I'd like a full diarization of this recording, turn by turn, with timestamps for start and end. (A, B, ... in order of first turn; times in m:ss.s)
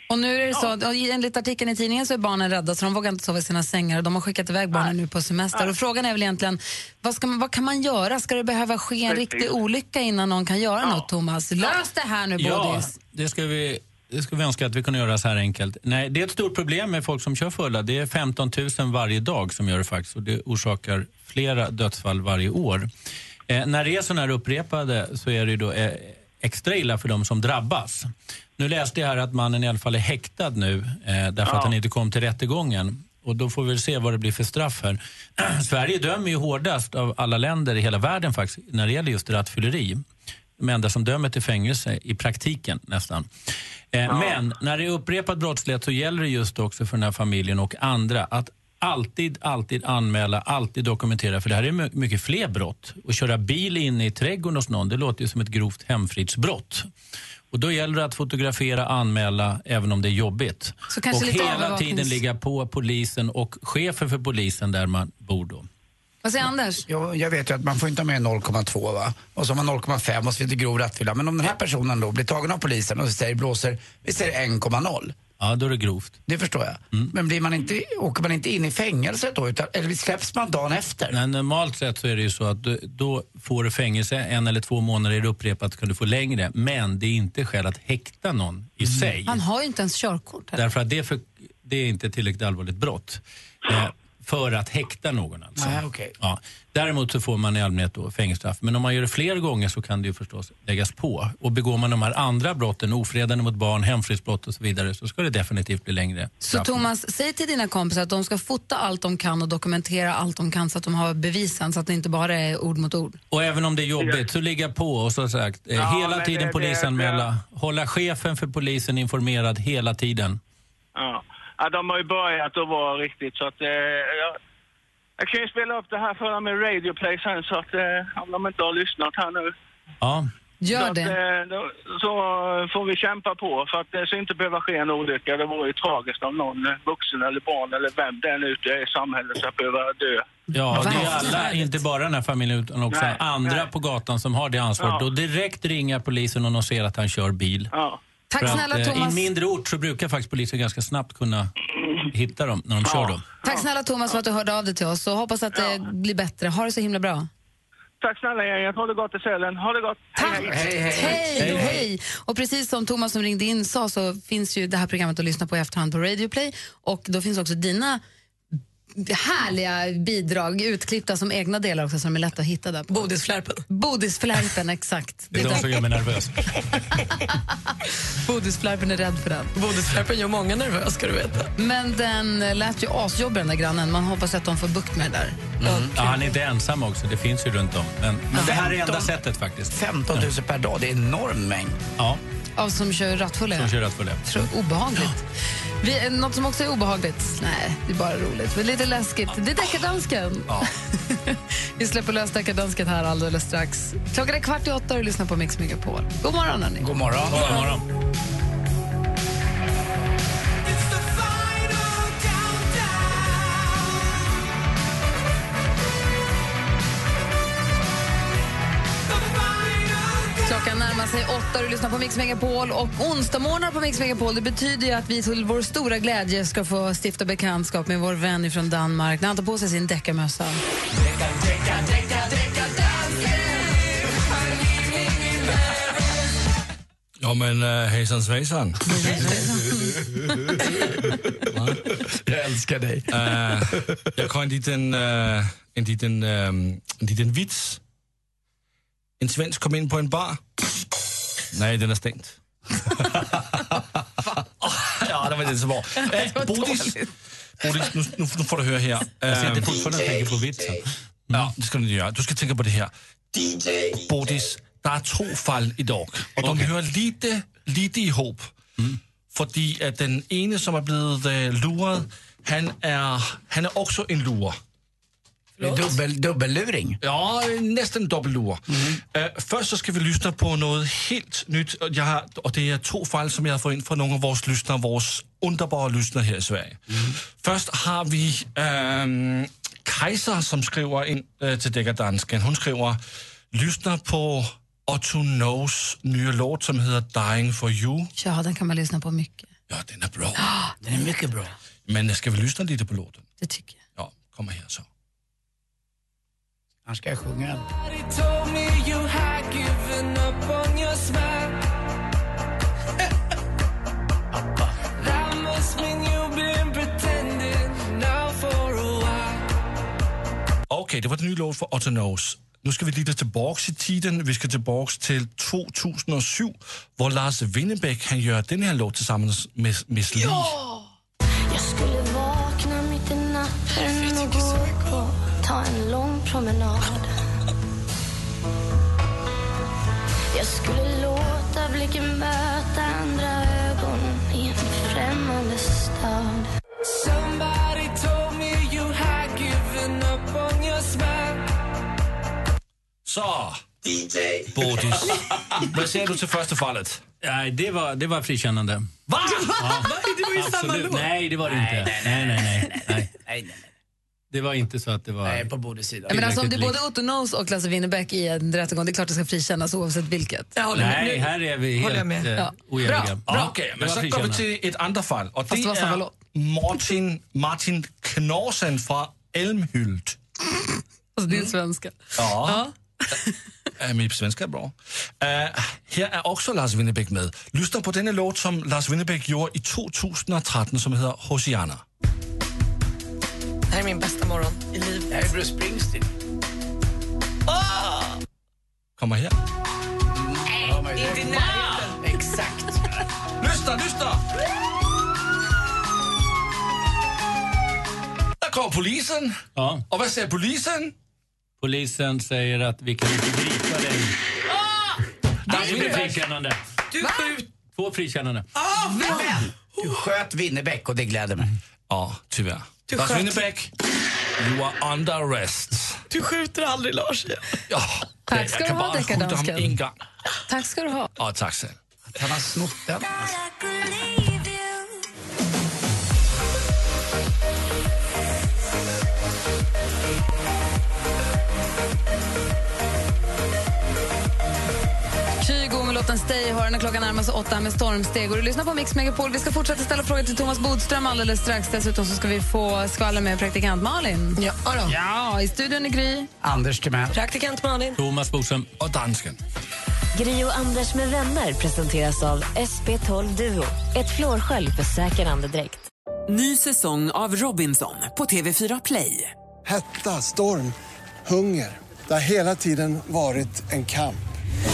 0:00.1-0:12.9 A
0:09.1-0:09.5 B
0:12.4-0:22.9 C
0:23.5-0:40.0 C
0:31.4-0:31.7 B
0:40.6-0:43.3 C
0:43.9-0:56.9 C
0:44.1-0:44.4 B
0:57.5-1:05.7 C
1:00.9-1:02.2 A
1:06.2-1:06.8 A
1:06.9-1:15.1 D
1:15.4-1:16.2 C
1:16.3-1:21.2 D
1:21.1-1:29.4 C
1:28.8-1:29.1 D
1:29.2-1:30.6 A
1:30.6-1:46.8 C
1:35.6-1:36.1 D
1:46.4-1:53.2 A
1:53.3-2:00.4 C
1:54.0-1:54.2 B
1:55.8-1:57.3 B
2:01.0-2:04.4 B
2:05.2-2:09.5 B
2:10.0-2:10.3 C
2:10.6-2:11.2 A
2:10.7-2:21.0 B
2:20.5-2:27.7 C
2:20.7-2:21.5 A
2:22.9-2:23.7 B
2:24.8-2:25.1 B
2:27.7-2:28.0 B
2:28.3-2:29.3 A
2:28.4-2:31.5 C
2:32.1-2:33.2 C
2:32.8-2:33.6 B
2:33.4-2:37.3 A
2:35.5-2:35.8 B
2:38.0-2:41.0 B
2:40.2-2:48.0 A
2:40.2-2:41.8 D
2:41.4-2:41.8 C
2:49.0-2:53.1 A
2:52.9-2:53.6 E
2:53.7-2:55.7 A
2:55.3-2:56.8 C
2:58.2-2:59.5 A
2:59.5-3:01.5 E
3:01.6-3:05.5 A
3:05.6-3:06.0 D
3:05.9-3:10.3 C
3:08.3-3:09.1 D
3:09.7-3:11.8 D
3:12.6-3:13.7 A
3:13.5-3:14.2 C
3:14.2-3:15.2 A
3:15.8-3:26.9 A
3:26.8-3:27.7 D
3:27.3-3:27.8 C
3:30.7-3:33.9 F
3:39.1-3:40.3 F
3:40.4-3:50.6 A
3:51.3-3:52.9 D
3:57.2-3:59.2 G
3:59.2-3:59.4 A
4:01.5-4:02.0 G
4:01.9-4:04.0 D
4:03.1-4:07.8 G
4:09.2-4:10.4 G
4:11.5-4:12.4 G
4:13.0-4:13.8 G
4:14.6-4:17.1 G
4:17.6-4:19.8 G
4:19.3-4:21.5 C
4:21.3-4:28.5 G
4:26.4-4:26.7 C
4:29.3-4:34.6 G
4:35.6-4:36.0 E
4:35.6-4:37.0 D
4:37.0-4:53.0 G
4:38.7-4:39.0 D
4:53.5-4:58.1 G
4:58.2-4:59.5 A
4:59.7-5:00.4 G
5:00.4-5:00.7 A
5:00.8-5:01.5 D
5:01.9-5:03.2 G
5:03.4-5:03.8 A
5:03.9-5:04.8 G
5:06.8-5:07.6 D
5:07.7-5:11.6 F
5:15.0-5:19.5 F
5:20.7-5:30.6 G
5:30.1-5:30.8 E
5:31.5-5:37.1 H
5:33.7-5:35.0 E
5:40.3-5:46.5 H
5:46.8-5:51.5 F
5:53.0-5:53.6 G
5:54.5-5:57.0 G
5:57.2-5:58.9 C
5:59.1-5:59.7 G
5:59.4-6:01.1 E
5:59.6-6:03.1 C
6:01.4-6:03.7 D
6:04.3-6:05.5 C
6:05.2-6:06.2 D
6:06.1-6:06.8 C
6:06.1-6:10.5 A
6:10.6-6:12.3 E
6:10.7-6:14.5 C
6:13.2-6:20.2 G
6:15.5-6:16.1 A
6:21.2-6:22.7 A
6:22.2-6:22.7 G
6:23.8-6:31.8 G
6:33.7-6:35.2 E
6:35.1-6:36.1 D
6:37.5-6:38.1 G
6:39.0-6:39.4 G
6:40.1-6:42.9 D
6:40.9-6:42.0 E
6:43.4-6:44.2 G
6:48.4-6:49.4 G
6:49.6-6:49.8 C
6:49.9-6:50.9 G
6:51.6-6:54.2 C
6:55.5-6:56.1 G
6:55.5-6:56.6 C
6:55.5-6:55.9 A
6:55.8-6:56.0 E
6:56.9-6:57.5 E
6:57.6-6:58.5 C
6:58.6-6:59.4 E
6:58.8-7:01.5 D
7:01.9-7:03.7 G
7:02.9-7:03.4 E
7:04.4-7:06.0 G
7:06.1-7:07.5 E
7:07.7-7:09.9 G
7:08.3-7:09.8 A
7:10.5-7:11.1 A
7:11.2-7:11.8 G
7:12.1-7:13.3 D
7:13.2-7:15.0 H
7:25.4-7:36.3 A
7:34.4-7:34.9 E
7:36.4-7:37.2 D
7:37.1-7:38.0 E
7:38.0-7:38.7 C
7:38.8-7:39.4 G
7:40.1-7:45.8 I
7:46.3-7:49.3 J
7:49.6-7:54.2 K